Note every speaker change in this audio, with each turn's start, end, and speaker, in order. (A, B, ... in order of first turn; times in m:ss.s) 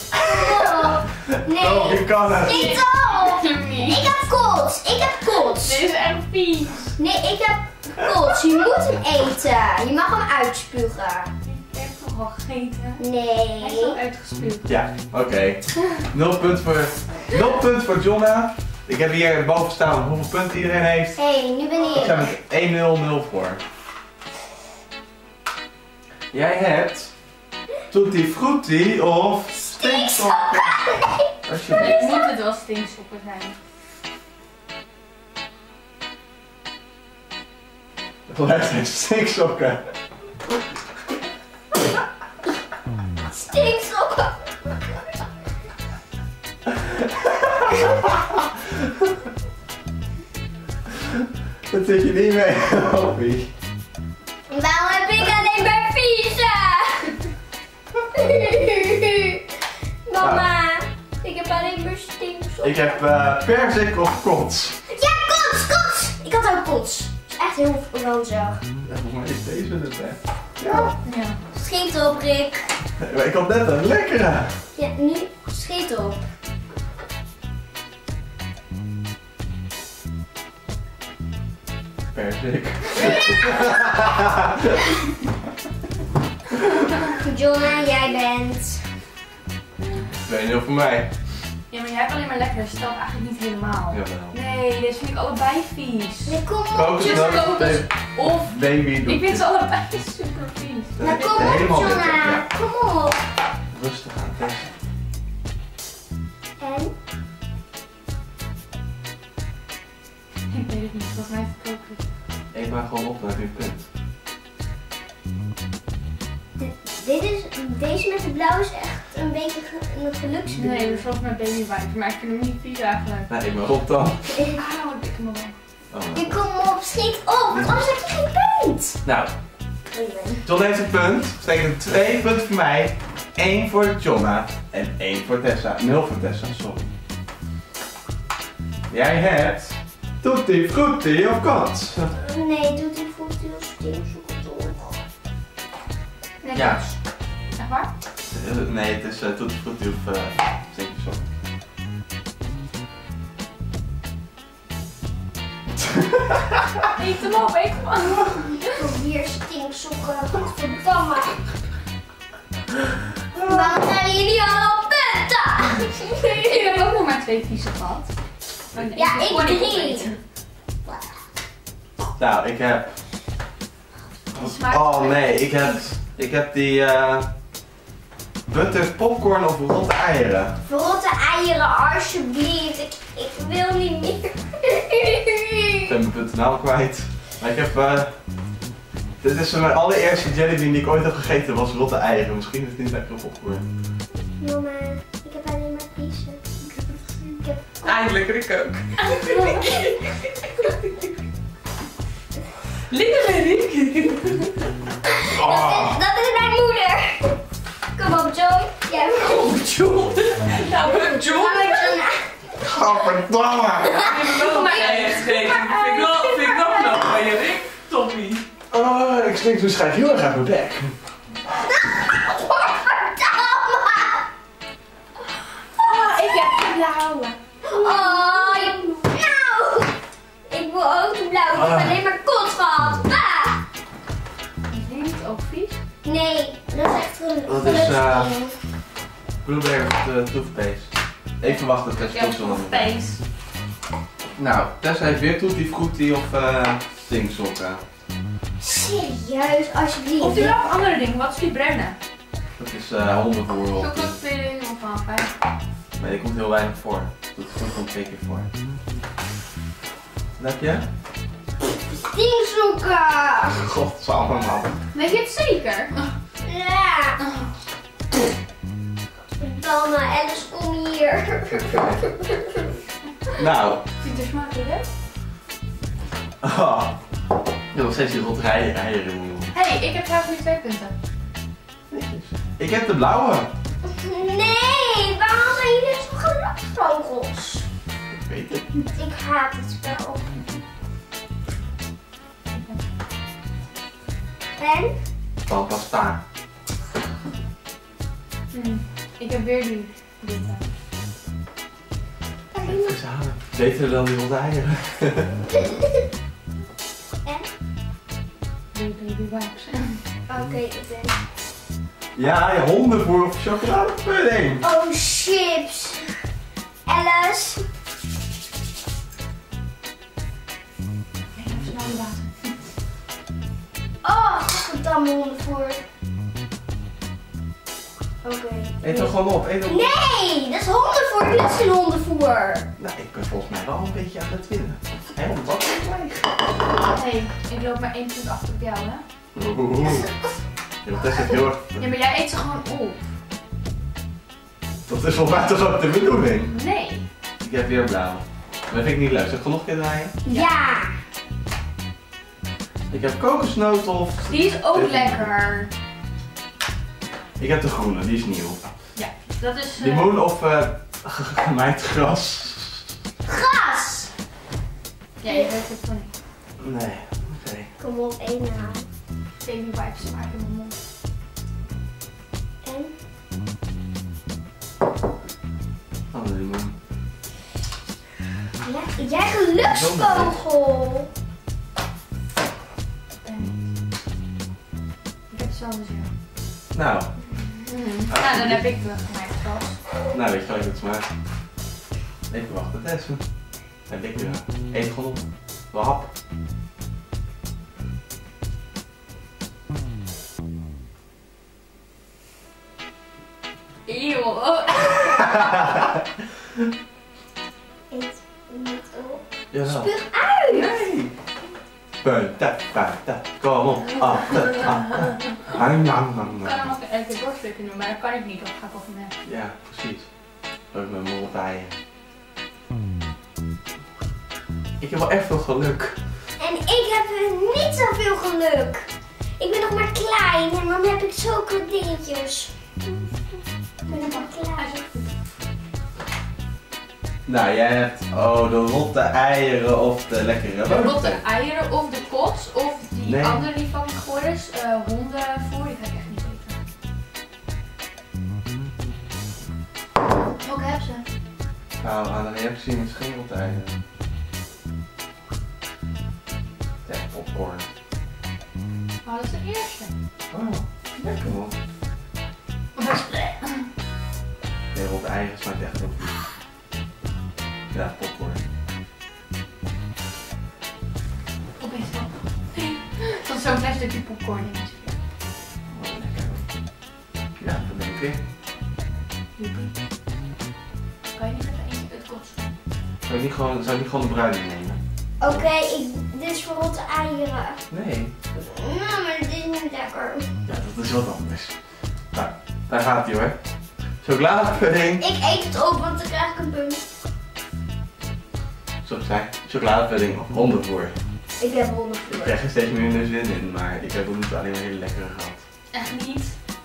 0:00.2-0:05.8 A
0:01.4-0:02.8 B
0:02.4-0:04.0 C
0:05.4-0:07.0 C
0:07.0-0:11.3 A
0:11.4-0:13.0 C
0:13.0-0:14.0 A
0:13.6-0:14.7 C
0:14.6-0:21.2 B
0:21.2-0:22.2 A
0:21.9-0:23.6 B
0:26.3-0:27.1 B
0:27.9-0:30.9 B
0:29.6-0:32.3 A
0:31.4-0:32.0 B
0:31.8-0:33.6 C
0:38.3-0:39.9 B
0:43.3-0:44.8 A
0:47.2-0:48.4 B
0:51.7-0:53.5 B
0:54.5-0:57.2 A
0:58.1-0:59.4 A
1:00.0-1:02.9 A
1:00.2-1:00.4 B
1:02.6-1:04.8 B
1:04.9-1:08.6 A
1:08.8-1:11.0 B
1:11.0-1:11.4 C
1:11.5-1:12.8 A
1:13.0-1:14.6 B
1:14.7-1:16.3 A
1:22.1-1:24.5 B
1:27.1-1:28.9 A
1:30.1-1:31.1 B
1:31.7-1:36.4 C
1:33.9-1:34.4 B
1:36.2-1:37.4 A
1:36.7-1:39.4 B
1:36.9-1:41.6 C
1:41.0-1:42.5 B
1:41.0-1:43.2 A
1:43.7-1:44.7 B
1:46.6-1:46.9 A
1:50.5-1:52.0 C
1:52.5-1:53.9 B
1:56.6-2:01.0 A
2:00.6-2:03.3 C
2:03.3-2:04.4 B
2:04.5-2:05.6 C
2:05.9-2:06.4 B
2:06.1-2:09.0 A
2:07.5-2:07.9 B
2:09.0-2:09.3 B
2:09.9-2:10.4 A
2:10.4-2:16.9 B
2:18.9-2:22.1 B
2:22.1-2:25.0 A
2:26.4-2:27.0 C
2:26.5-2:26.8 B
2:27.5-2:27.9 C
2:28.2-2:31.2 B
2:36.9-2:38.7 C
2:38.7-2:41.4 A
2:43.4-2:46.8 A
2:46.2-2:48.1 C
2:48.7-2:50.2 C
2:48.9-2:50.1 A
2:50.8-2:51.2 A
2:52.2-2:53.0 B
2:54.3-2:55.5 C
2:54.3-2:57.3 B
2:58.4-3:00.6 B
3:00.6-3:05.9 A
3:05.8-3:08.2 B
3:09.2-3:13.6 B
3:14.4-3:16.4 A
3:16.6-3:21.1 D
3:17.4-3:18.2 A
3:19.2-3:20.0 A
3:22.9-3:24.7 D
3:25.1-3:27.4 A
3:25.3-3:26.0 B
3:27.9-3:29.5 A
3:29.2-3:31.9 D
3:31.2-3:32.9 A
3:32.6-3:34.0 B
3:33.8-3:34.4 A
3:33.9-3:38.4 D
3:34.4-3:36.3 C
3:36.4-3:36.9 A
3:38.7-3:40.9 B
3:41.6-3:44.3 A
3:45.7-3:48.4 C
3:45.8-3:46.2 A
3:47.6-3:53.6 A
3:51.5-3:52.0 B
3:54.7-3:55.8 C
3:56.0-3:58.5 A
3:57.5-3:58.3 B
3:59.4-4:02.9 B
4:01.8-4:03.2 C
4:04.4-4:07.8 B
4:08.6-4:10.6 A
4:10.2-4:12.0 C
4:12.6-4:14.2 B
4:13.8-4:15.3 C
4:16.0-4:18.5 B
4:20.4-4:20.8 B
4:21.8-4:23.7 A
4:23.6-4:24.8 B
4:24.9-4:26.1 C
4:26.4-4:27.2 A
4:27.2-4:27.5 C
4:29.4-4:32.7 A
4:33.4-4:33.8 B
4:34.0-4:34.9 C
4:36.4-4:37.0 B
4:37.7-4:39.5 B
4:39.5-4:40.9 C
4:41.9-4:43.5 B
4:43.8-4:47.6 A
4:48.1-4:48.7 B
4:48.9-4:50.6 A
4:52.5-4:52.8 C
4:54.6-4:54.9 A
4:55.4-4:56.2 B
4:58.5-5:00.7 C
5:02.5-5:03.0 A
5:02.6-5:05.3 B
5:08.7-5:10.0 C
5:10.3-5:11.2 A
5:12.1-5:14.6 B
5:14.6-5:16.2 A
5:16.8-5:17.6 A
5:21.3-5:22.5 C
5:24.0-5:25.8 A
5:28.2-5:28.8 A
5:28.8-5:29.9 B
5:28.9-5:29.1 C
5:29.6-5:32.7 A
5:32.8-5:36.3 B
5:36.8-5:39.0 C
5:39.3-5:40.1 B
5:40.8-5:41.9 B
5:41.8-5:43.1 C
5:44.9-5:46.5 B
5:46.5-5:47.1 C
5:47.4-5:50.1 B
5:50.2-5:51.0 A
5:52.9-5:55.3 B
5:54.2-5:55.7 C
5:57.4-5:58.7 B
5:58.9-6:00.2 C
5:59.8-6:02.9 B
6:03.2-6:04.1 A
6:05.2-6:06.1 C
6:06.6-6:07.7 B
6:07.8-6:08.8 A
6:09.4-6:10.8 C
6:12.6-6:12.9 A
6:16.1-6:16.8 B
6:18.6-6:21.1 A
6:19.6-6:20.4 B
6:23.2-6:23.7 C
6:25.3-6:26.1 C
6:26.7-6:27.1 B
6:27.3-6:29.8 C
6:28.1-6:28.6 B
6:30.1-6:31.1 B
6:32.3-6:33.2 B
6:33.8-6:36.1 B
6:43.9-6:45.5 C
6:47.9-6:50.8 A
6:49.5-6:49.9 B
6:50.5-6:51.1 B
6:52.0-6:56.7 B
6:56.4-6:59.2 C
6:59.2-7:00.1 B
7:00.7-7:01.7 B
7:04.8-7:06.0 B
7:06.4-7:08.9 A
7:09.4-7:12.6 A
7:13.9-7:14.7 A
7:13.9-7:15.1 C
7:17.2-7:21.2 B
7:20.6-7:26.6 C
7:23.0-7:23.4 B
7:30.3-7:31.0 C
7:31.8-7:33.8 B
7:36.8-7:37.6 B
7:39.0-7:39.9 C
7:40.3-7:41.5 B
7:42.7-7:43.7 C
7:44.7-7:46.2 B
7:47.7-7:48.4 B
7:51.6-7:55.0 C
7:55.7-7:56.5 B
7:57.4-7:58.2 B
7:59.4-7:59.7 C
8:01.1-8:02.5 C
8:03.0-8:05.4 B
8:05.2-8:07.6 A
8:07.7-8:08.1 B
8:08.3-8:10.3 A
8:10.4-8:11.5 B
8:12.1-8:13.4 B
8:14.0-8:15.0 B
8:15.0-8:16.8 A
8:18.8-8:21.0 B
8:21.4-8:22.4 A
8:22.1-8:25.4 B
8:25.7-8:26.4 C